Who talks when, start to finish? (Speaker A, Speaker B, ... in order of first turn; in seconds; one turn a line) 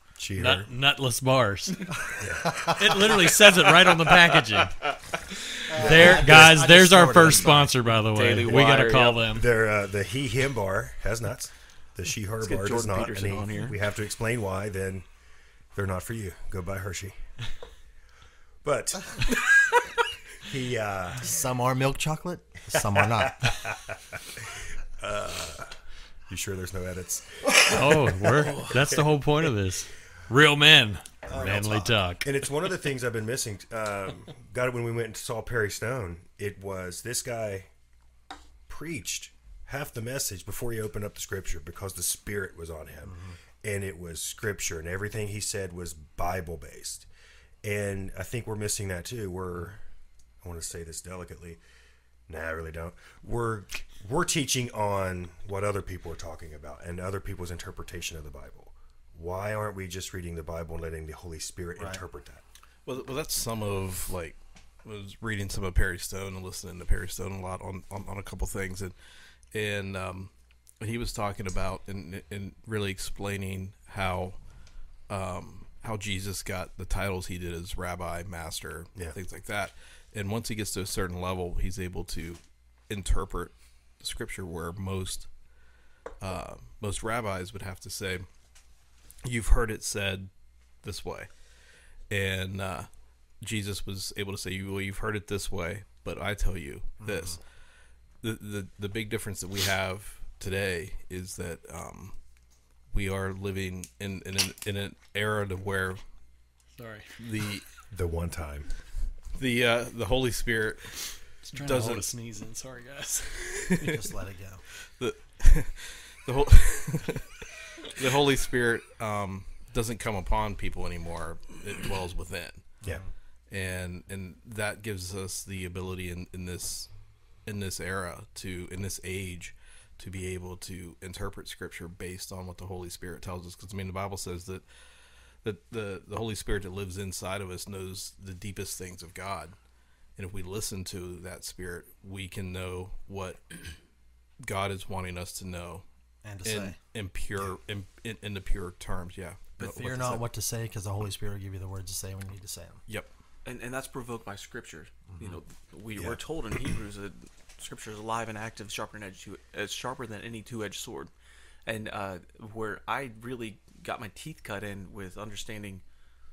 Speaker A: 0.2-0.7
Speaker B: 0.4-2.1
Speaker A: 2.2-2.7
Speaker C: 2.4-2.9
Speaker B: 2.7-4.9
Speaker C: 5.7-7.7
Speaker B: 5.8-9.5
Speaker A: 5.8-6.2
Speaker D: 8.1-9.2
Speaker A: 9.3-15.1
Speaker D: 12.4-13.8
Speaker A: 15.8-17.2
Speaker A: 18.6-19.4
Speaker A: 20.4-21.3
Speaker C: 21.2-23.4
Speaker A: 22.9-25.8
Speaker A: 26.3-29.0
Speaker B: 27.6-32.3
Speaker A: 31.3-37.7
Speaker C: 31.3-32.0
Speaker A: 38.7-47.1
Speaker C: 43.0-43.4
Speaker A: 47.6-49.8
Speaker A: 50.4-51.6
Speaker A: 52.3-62.4
Speaker C: 61.8-62.0
Speaker E: 62.9-74.4
Speaker E: 75.1-85.3
Speaker E: 86.2-88.3
Speaker E: 89.2-91.3
Speaker E: 92.1-92.9
Speaker E: 93.4-97.5
Speaker C: 97.0-97.4
Speaker E: 98.2-102.2
Speaker E: 102.9-106.0
Speaker B: 106.8-107.1
Speaker E: 107.2-107.7
Speaker A: 107.9-108.7
Speaker E: 109.3-112.1
Speaker B: 111.5-113.6
Speaker E: 113.5-114.0
Speaker C: 113.8-114.6
Speaker E: 115.0-122.8
Speaker C: 122.8-123.1
Speaker E: 123.5-126.9
Speaker E: 127.4-134.6
Speaker E: 135.4-139.6
Speaker E: 140.2-143.8
Speaker E: 144.4-145.8
Speaker C: 146.2-146.8
Speaker E: 146.4-150.2
Speaker C: 149.6-152.8
Speaker D: 153.4-161.1
Speaker C: 155.1-155.4
Speaker D: 161.7-165.8